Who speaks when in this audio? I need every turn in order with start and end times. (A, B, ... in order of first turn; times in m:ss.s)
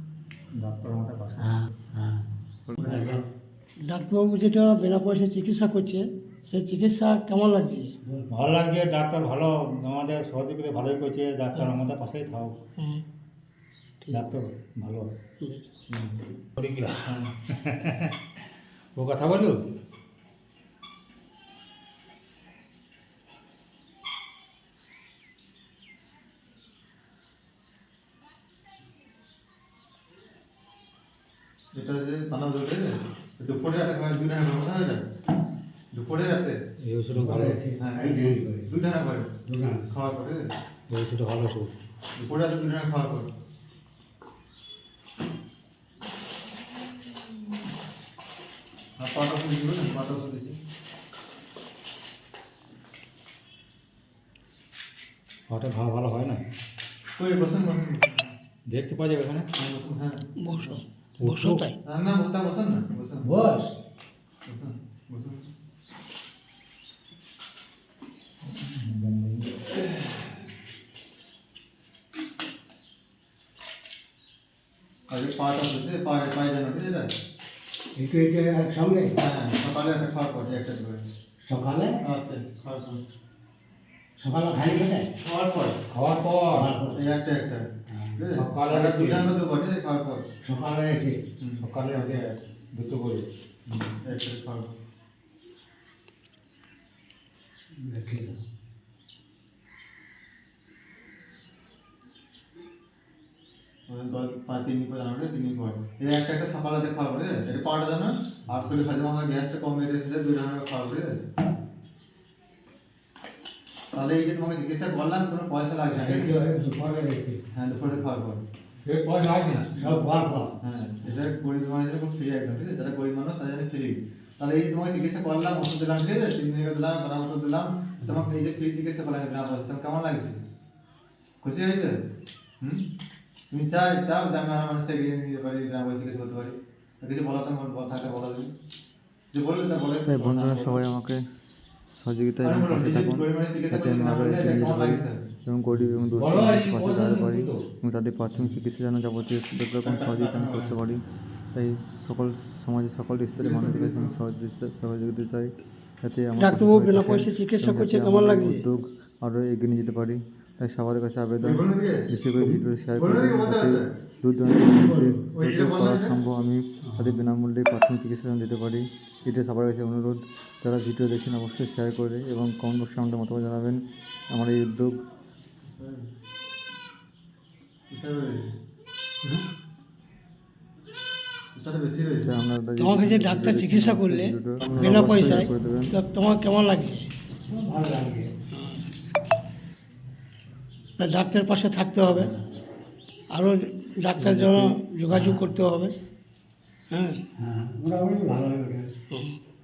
0:00.5-0:01.7 A
0:01.4-0:02.3 B
0:02.7-0:03.2 C
0:02.8-0:03.2 B
0:03.9-0:07.9 D
0:08.0-0:08.3 B
0:08.3-0:12.6 A
0:12.8-0:13.0 D
0:14.1-0:15.1 A
0:16.6-0:18.1 A
0:19.0-0:19.6 A
0:31.7-0:35.0 C
0:35.9-0:36.6 C
0:36.8-0:37.6 A
0:37.1-0:38.7 B
0:37.8-0:39.3 C
0:39.5-0:39.9 B
0:39.9-0:40.4 C
0:40.9-0:41.7 A
0:42.2-0:43.3 C
0:49.0-0:50.6 C
0:55.5-0:56.4 A
0:57.2-0:58.3 C
0:58.7-0:59.5 A
0:59.6-1:00.2 C
1:00.4-1:01.8 D
1:01.2-1:01.6 A
1:01.8-1:03.3 C
1:03.2-1:03.7 B
1:04.5-1:05.5 C
1:08.5-1:09.8 A
1:15.1-1:17.1 C
1:18.0-1:19.1 B
1:19.2-1:21.0 C
1:21.4-1:22.0 B
1:22.0-1:23.0 C
1:24.2-1:25.1 B
1:25.2-1:25.8 C
1:25.9-1:26.7 A
1:26.5-1:27.0 B
1:26.9-1:27.6 C
1:27.9-1:28.2 B
1:28.2-1:30.2 C
1:28.3-1:29.4 A
1:30.4-1:31.2 B
1:31.6-1:33.9 A
1:34.0-1:34.7 C
1:37.8-1:38.4 B
1:43.9-1:51.2 C
1:53.9-1:56.4 C
1:55.9-1:57.4 B
1:57.5-1:58.4 C
1:58.9-2:00.5 B
2:00.6-2:10.4 C
2:11.4-2:12.0 C
2:13.5-2:18.5 C
2:19.3-2:20.8 C
2:20.0-2:21.2 E
2:21.9-2:31.0 E
2:22.4-2:25.3 C
2:26.1-2:27.7 A
2:29.8-2:30.7 C
2:31.5-2:53.8 E
2:33.4-2:34.1 C
2:36.4-2:38.6 D
2:41.4-2:43.9 C
2:45.3-2:46.2 C
2:54.3-2:55.0 E
2:55.6-2:56.1 C
2:57.9-2:58.5 C
3:01.6-3:02.3 C
3:02.2-3:05.9 E
3:02.8-3:07.1 D
3:07.5-3:08.3 B
3:08.5-3:08.8 D
3:11.0-3:12.3 D
3:13.4-3:15.9 D
3:15.1-3:15.5 B
3:16.9-3:17.2 D
3:17.4-3:18.9 B
3:19.1-3:19.4 D